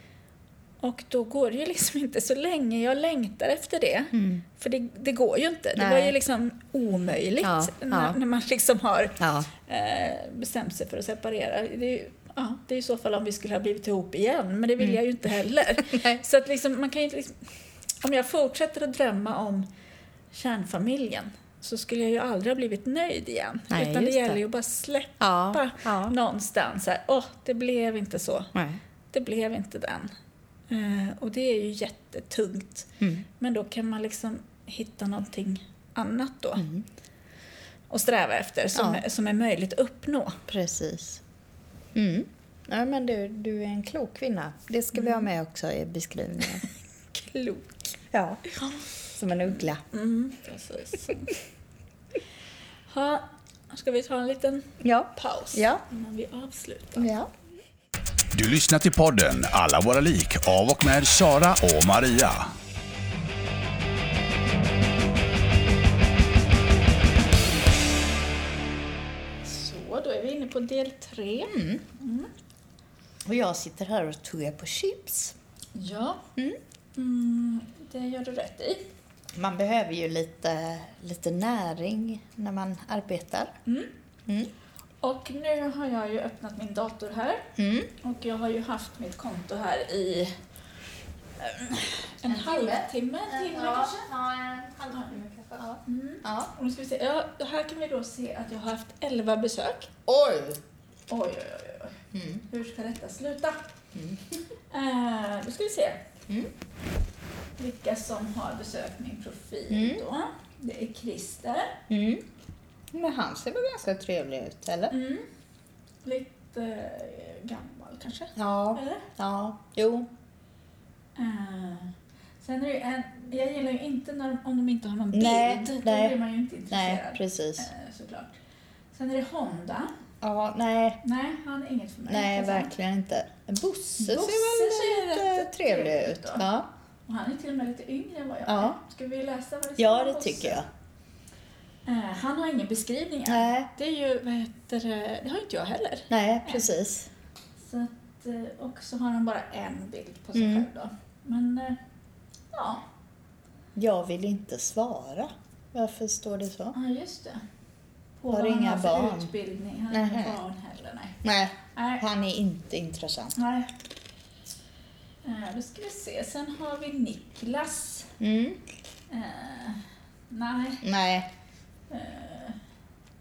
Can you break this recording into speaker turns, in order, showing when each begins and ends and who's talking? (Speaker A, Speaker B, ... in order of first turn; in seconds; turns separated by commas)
Speaker A: 0.8-17.4, Speaker B: 4.1-4.4, Speaker B: 5.8-6.1, Speaker B: 7.4-8.2, Speaker B: 9.2-9.5, Speaker B: 15.8-16.2, Speaker A: 18.0-19.7, Speaker A: 20.3-28.5, Speaker B: 23.7-24.4, Speaker B: 25.2-26.1, Speaker B: 28.5-28.8, Speaker A: 29.1-30.1, Speaker A: 30.7-36.7, Speaker B: 33.0-33.2, Speaker B: 36.6-36.8, Speaker A: 37.9-40.4, Speaker B: 38.7-39.0, Speaker B: 40.5-41.2, Speaker B: 41.9-46.6, Speaker A: 44.9-45.3, Speaker A: 47.1-47.8, Speaker B: 48.1-48.4, Speaker A: 48.5-48.8, Speaker B: 49.1-49.8, Speaker A: 49.9-51.4, Speaker A: 52.9-57.1, Speaker B: 54.8-55.8, Speaker B: 57.0-57.3, Speaker C: 58.3-62.5, Speaker A: 69.4-72.3, Speaker B: 71.5-71.8, Speaker B: 73.2-75.3, Speaker A: 75.7-76.3, Speaker A: 77.0-78.9, Speaker B: 79.3-83.5, Speaker A: 83.7-83.9, Speaker B: 84.2-84.5, Speaker A: 85.0-90.4, Speaker B: 87.5-87.9, Speaker A: 91.4-94.1, Speaker B: 92.2-96.5, Speaker A: 95.8-99.9, Speaker B: 100.0-100.6, Speaker A: 101.1-103.6, Speaker B: 102.1-102.4, Speaker B: 103.9-104.2, Speaker A: 104.7-106.0, Speaker A: 107.6-111.8, Speaker B: 109.7-110.0, Speaker B: 111.9-112.2, Speaker B: 112.9-114.9, Speaker A: 114.9-115.3, Speaker A: 116.0-119.1, Speaker B: 118.3-120.1, Speaker A: 121.2-128.4, Speaker B: 125.1-126.1, Speaker B: 126.7-127.7, Speaker A: 128.9-129.9, Speaker B: 130.2-131.0, Speaker A: 131.0-132.7, Speaker B: 132.1-136.7, Speaker A: 134.0-136.4, Speaker A: 137.1-140.6, Speaker B: 138.4-138.8, Speaker B: 139.8-140.7, Speaker A: 141.8-146.7, Speaker B: 143.2-143.7, Speaker B: 146.1-147.1, Speaker A: 147.6-151.8, Speaker B: 150.3-150.7, Speaker A: 152.5-152.8, Speaker B: 153.8-156.7, Speaker A: 156.7-157.4, Speaker A: 158.2-161.2, Speaker B: 158.3-159.3, Speaker B: 159.9-160.4, Speaker B: 161.2-163.3, Speaker A: 161.7-162.0, Speaker A: 163.3-163.7, Speaker A: 165.2-168.2, Speaker B: 168.2-168.6, Speaker A: 169.1-170.8, Speaker B: 170.8-171.3, Speaker A: 171.9-172.6